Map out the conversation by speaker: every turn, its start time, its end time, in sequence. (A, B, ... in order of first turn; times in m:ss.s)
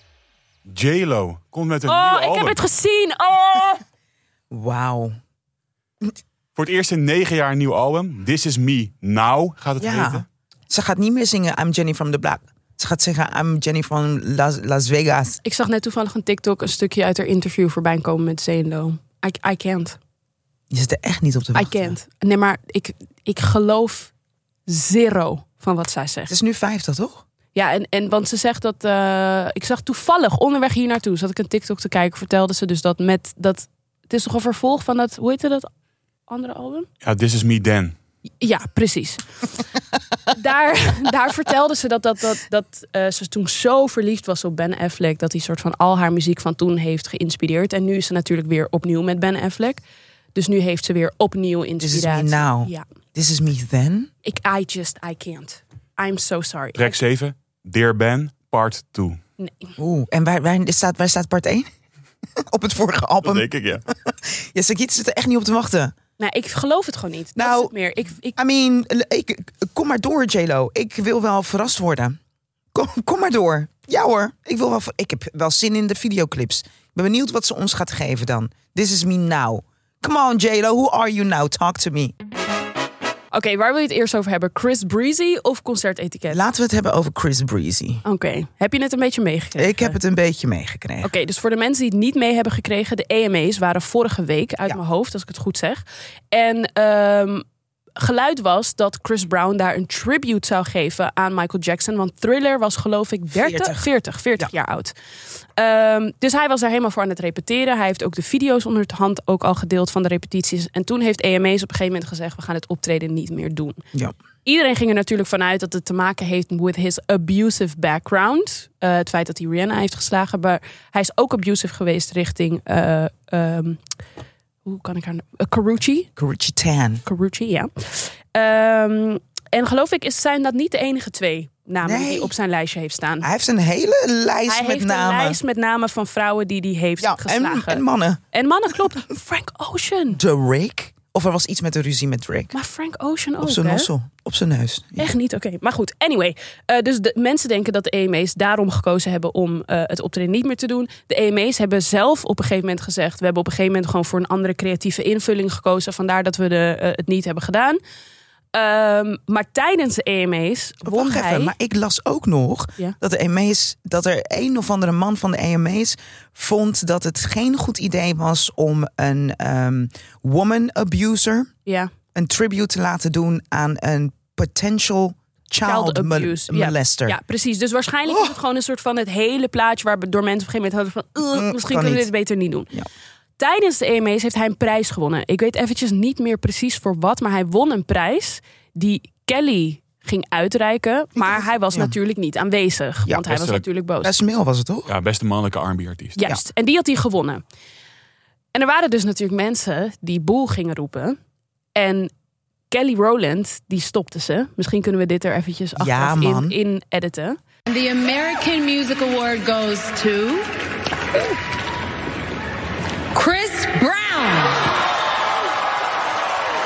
0:00.7-0:02.6 A
0:01.9-0:03.8 B
0:04.5-0:05.2 C
0:06.6-0:10.2 A
0:09.8-0:15.4 C
0:15.4-0:20.0 B
0:20.7-0:22.0 C
0:21.5-0:24.1 B
0:24.7-0:26.3 B
0:26.3-0:27.2 C
0:27.5-0:35.7 B
0:36.3-0:36.9 B
0:37.0-0:37.9 A
0:38.4-0:39.5 B
0:40.3-0:49.8 B
0:50.3-0:52.8 B
0:51.8-0:54.1 C
0:54.2-0:56.9 B
0:56.8-0:59.2 A
0:59.4-0:59.7 B
0:59.8-1:01.7 C
1:02.4-1:05.9 C
1:03.2-1:03.8 A
1:06.2-1:08.4 B
1:07.4-1:07.7 C
1:08.3-1:12.2 C
1:12.7-1:22.1 C
1:23.3-1:26.4 B
1:26.3-1:28.0 C
1:28.0-1:30.0 B
1:29.6-1:31.1 C
1:31.0-1:37.4 B
1:38.0-1:44.9 B
1:43.3-1:43.8 C
1:45.6-1:53.8 B
1:54.4-2:03.8 B
2:04.6-2:06.1 B
2:06.2-2:07.0 C
2:07.0-2:13.3 B
2:11.8-2:12.3 C
2:13.2-2:15.4 C
2:14.5-2:20.2 B
2:17.0-2:18.9 C
2:20.1-2:22.5 C
2:22.5-2:23.9 B
2:23.4-2:25.1 C
2:25.0-2:37.8 B
2:38.5-2:41.5 B
2:40.8-2:51.5 C
2:52.1-2:57.2 C
2:55.6-3:02.7 B
2:58.1-2:58.3 C
3:01.3-3:02.1 C
3:03.4-3:14.1 B
3:11.2-3:11.9 C
3:13.3-3:13.6 A
3:14.0-3:14.9 C
3:14.9-3:16.2 A
3:16.2-3:17.4 B
3:18.5-3:21.2 B
3:21.7-3:22.1 B
3:22.7-3:27.4 B
3:25.8-3:26.6 C
3:27.7-3:30.5 D
3:33.1-3:34.7 D